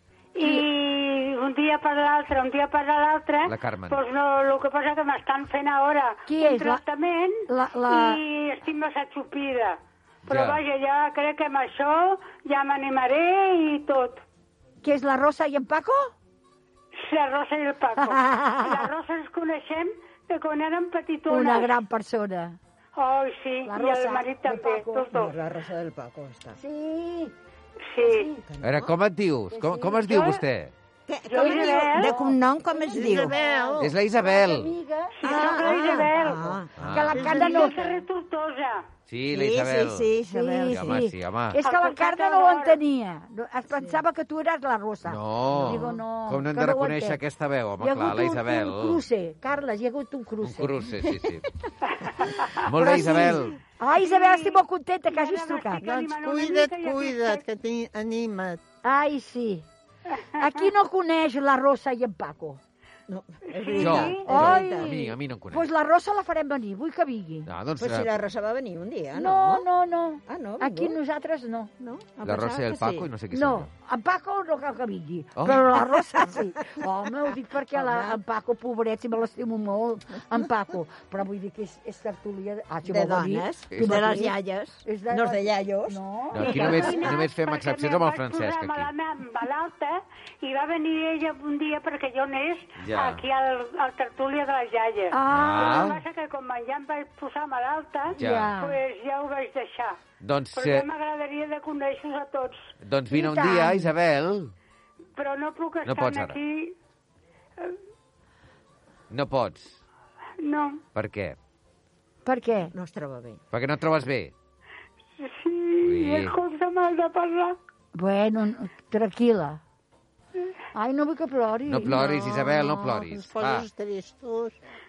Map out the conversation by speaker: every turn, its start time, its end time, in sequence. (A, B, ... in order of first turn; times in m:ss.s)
0:00.4-0:14.2 A
0:03.4-0:04.0 B
0:06.3-0:06.8 C
0:07.5-0:08.2 C
0:10.2-0:10.6 B
0:14.8-0:16.1 C
0:17.0-0:21.7 A
0:18.0-0:18.8 C
0:21.3-0:22.6 C
0:23.0-0:25.3 A
0:23.6-0:25.1 C
0:25.1-0:26.6 D
0:26.6-0:27.3 C
0:27.9-0:28.3 A
0:28.0-0:28.4 C
0:28.4-0:28.9 D
0:28.6-0:30.7 B
0:29.5-0:30.3 C
0:30.1-0:30.4 A
0:31.1-0:33.4 D
0:31.3-0:32.1 A
0:31.3-0:37.8 C
0:32.9-0:33.9 E
0:33.8-0:34.7 B
0:35.2-0:36.4 A
0:35.2-0:36.8 D
0:36.8-0:37.2 B
0:37.1-0:37.9 E
0:37.2-0:38.8 A
0:39.1-0:40.1 B
0:39.3-0:41.0 D
0:40.3-0:47.2 C
0:40.7-0:41.6 B
0:41.6-0:42.8 A
0:43.7-0:44.0 D
0:45.0-0:49.0 B
0:47.8-0:50.8 C
0:50.4-0:51.4 B
0:52.0-0:52.6 A
0:52.6-0:53.6 B
0:52.8-0:55.8 C
0:52.9-0:53.4 D
0:53.9-0:57.4 A
0:55.8-0:58.6 E
0:58.8-0:59.6 C
1:00.4-1:02.6 C
1:00.4-1:00.7 A
1:03.1-1:05.0 D
1:03.5-1:04.2 A
1:03.8-1:05.6 B
1:03.9-1:07.5 C
1:07.4-1:08.1 B
1:07.8-1:09.6 D
1:09.1-1:11.7 C
1:10.3-1:11.0 D
1:11.8-1:13.1 D
1:12.2-1:13.7 B
1:13.3-1:27.2 C
1:15.4-1:15.8 B
1:17.7-1:18.2 D
1:22.8-1:27.1 D
1:23.7-1:24.1 B
1:26.3-1:28.9 B
1:26.4-1:40.0 A
1:32.8-1:33.2 B
1:35.1-1:35.8 C
1:35.3-1:36.0 B
1:38.2-1:38.5 B
1:38.2-1:38.8 C
1:40.2-1:40.9 B
1:40.5-1:42.7 A
1:42.8-1:44.5 B
1:43.1-1:43.9 C
1:45.2-1:46.7 A
1:45.8-1:46.4 B
1:49.1-1:49.8 B
1:50.4-1:50.8 A
1:50.9-1:51.4 B
1:52.2-1:52.7 C
1:52.7-1:53.4 D
1:53.5-1:54.3 B
1:55.2-1:57.6 A
1:55.8-1:56.4 B
1:57.9-1:59.6 C
2:00.7-2:02.0 C
2:01.7-2:03.7 B
2:01.8-2:04.6 E